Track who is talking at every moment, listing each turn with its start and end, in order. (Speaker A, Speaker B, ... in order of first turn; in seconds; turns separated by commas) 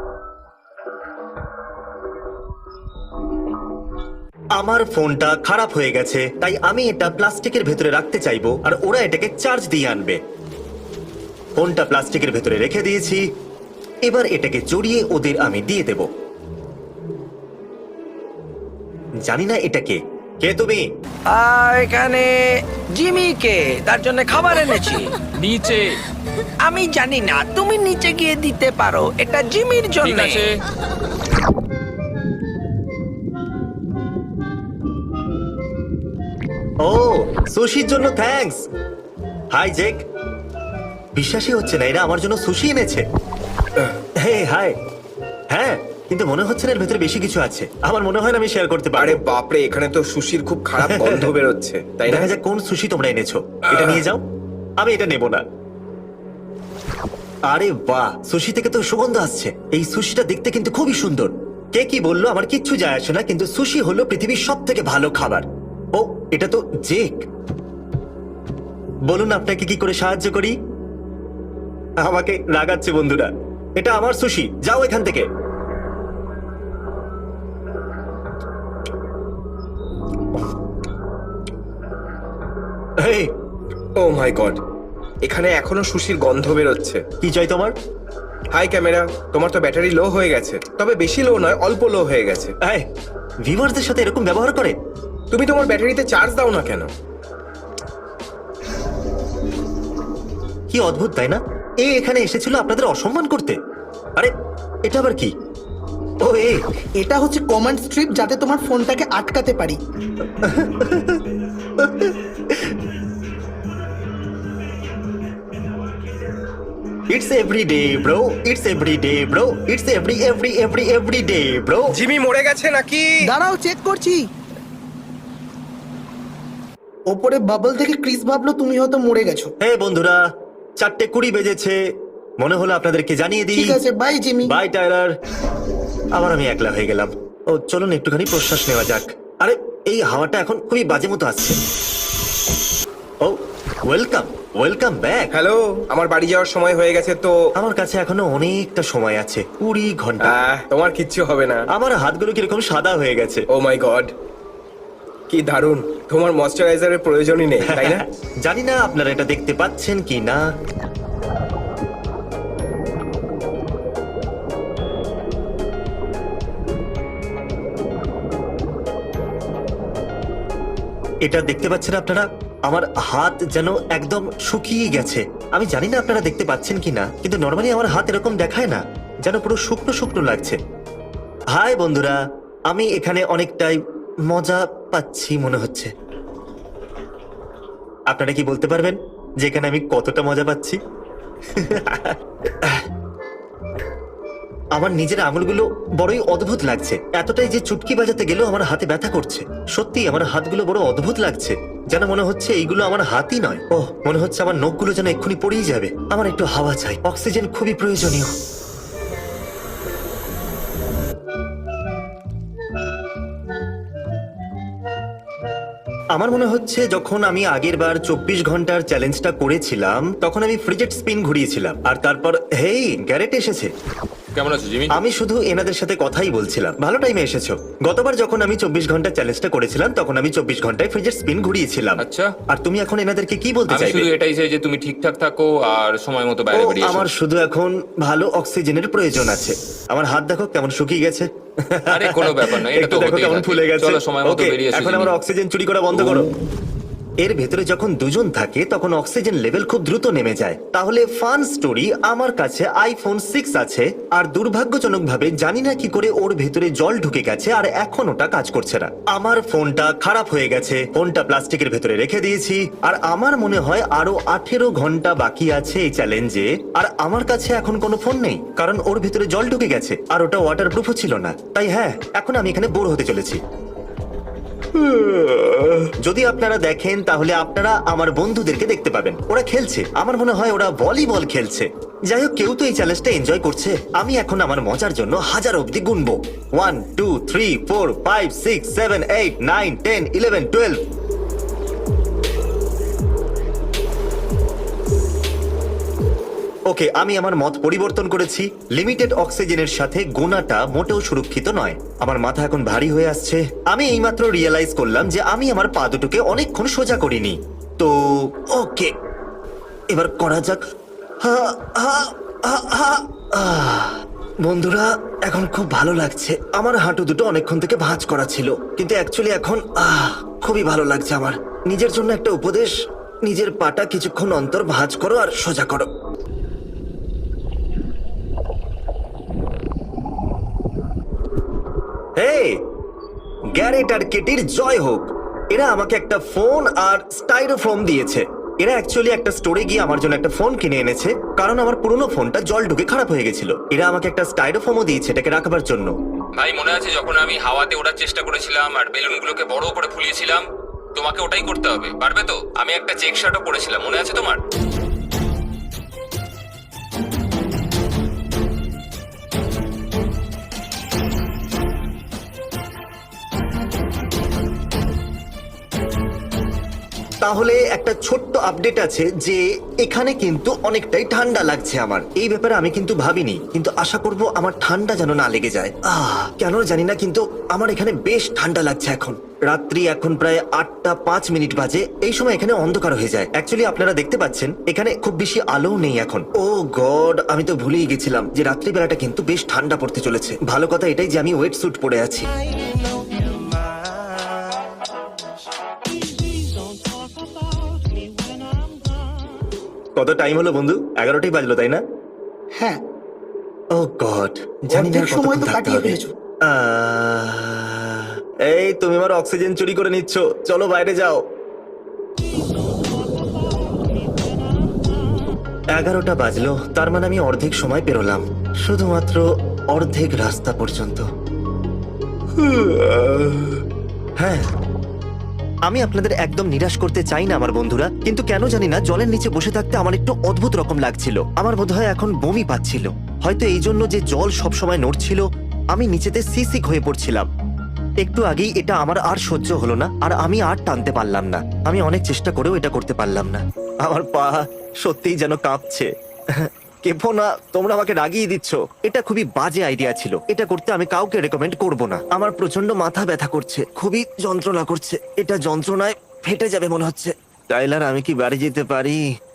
Speaker A: 4.5-10.2, Speaker A: 11.6-13.2, Speaker A: 14.1-16.1, Speaker A: 19.2-20.8, Speaker B: 21.3-25.2, Speaker C: 25.3-26.0, Speaker B: 26.6-30.4, Speaker C: 30.0-30.6, Speaker A: 36.8-38.6, Speaker A: 39.5-40.0, Speaker A: 41.1-43.0, Speaker A: 44.2-44.7, Speaker A: 45.5-49.2, Speaker D: 49.0-52.3, Speaker A: 50.8-51.3, Speaker A: 52.1-54.2, Speaker D: 53.7-54.0, Speaker A: 54.8-55.4, Speaker A: 57.5-67.2, Speaker A: 69.1-70.5, Speaker A: 72.0-75.2, Speaker A: 83.0-83.3, Speaker D: 84.0-84.6, Speaker D: 85.2-87.0, Speaker A: 87.2-87.7, Speaker D: 88.5-92.5, Speaker A: 93.5-94.7, Speaker D: 95.3-96.9, Speaker A: 100.7-103.6, Speaker A: 104.8-105.3, Speaker A: 106.2-106.6, Speaker E: 107.0-109.8, Speaker A: 110.4-111.2, Speaker A: 111.8-112.6, Speaker A: 117.1-122.0, Speaker D: 121.9-123.3, Speaker E: 123.2-124.3, Speaker E: 127.1-129.5, Speaker A: 129.6-130.2, Speaker A: 130.8-131.8, Speaker A: 132.4-133.8, Speaker E: 133.5-134.6, Speaker A: 134.4-135.1, Speaker A: 136.1-141.6, Speaker A: 143.2-145.3, Speaker D: 145.3-147.3, Speaker A: 147.6-150.4, Speaker D: 150.2-151.6, Speaker A: 151.7-153.4, Speaker D: 153.5-154.1, Speaker D: 155.3-158.0, Speaker A: 157.6-160.4, Speaker A: 171.2-180.6, Speaker A: 181.5-182.2, Speaker A: 182.7-185.9, Speaker A: 188.1-190.8, Speaker A: 191.6-192.8, Speaker A: 194.8-208.3, Speaker A: 216.1-223.7, Speaker C: 224.3-224.9, Speaker A: 224.9-234.1, Speaker C: 232.0-232.3, Speaker C: 233.7-237.1, Speaker A: 236.5-246.3, Speaker C: 241.9-245.2, Speaker C: 245.9-246.3, Speaker A: 247.2-273.4, Speaker A: 275.0-290.8, Speaker A: 296.7-308.9, Speaker A: 309.9-310.6, Speaker A: 311.2-322.7, Speaker A: 323.2-325.9, Speaker A: 332.2-332.6, Speaker A: 333.6-345.9, Speaker C: 346.4-354.4, Speaker A: 367.2-392.3, Speaker A: 399.9-401.8, Speaker A: 403.7-411.2, Speaker E: 404.7-406.1, Speaker A: 415.7-421.0, Speaker D: 422.4-423.5, Speaker A: 424.2-424.4, Speaker A: 425.7-437.3, Speaker A: 438.0-459.0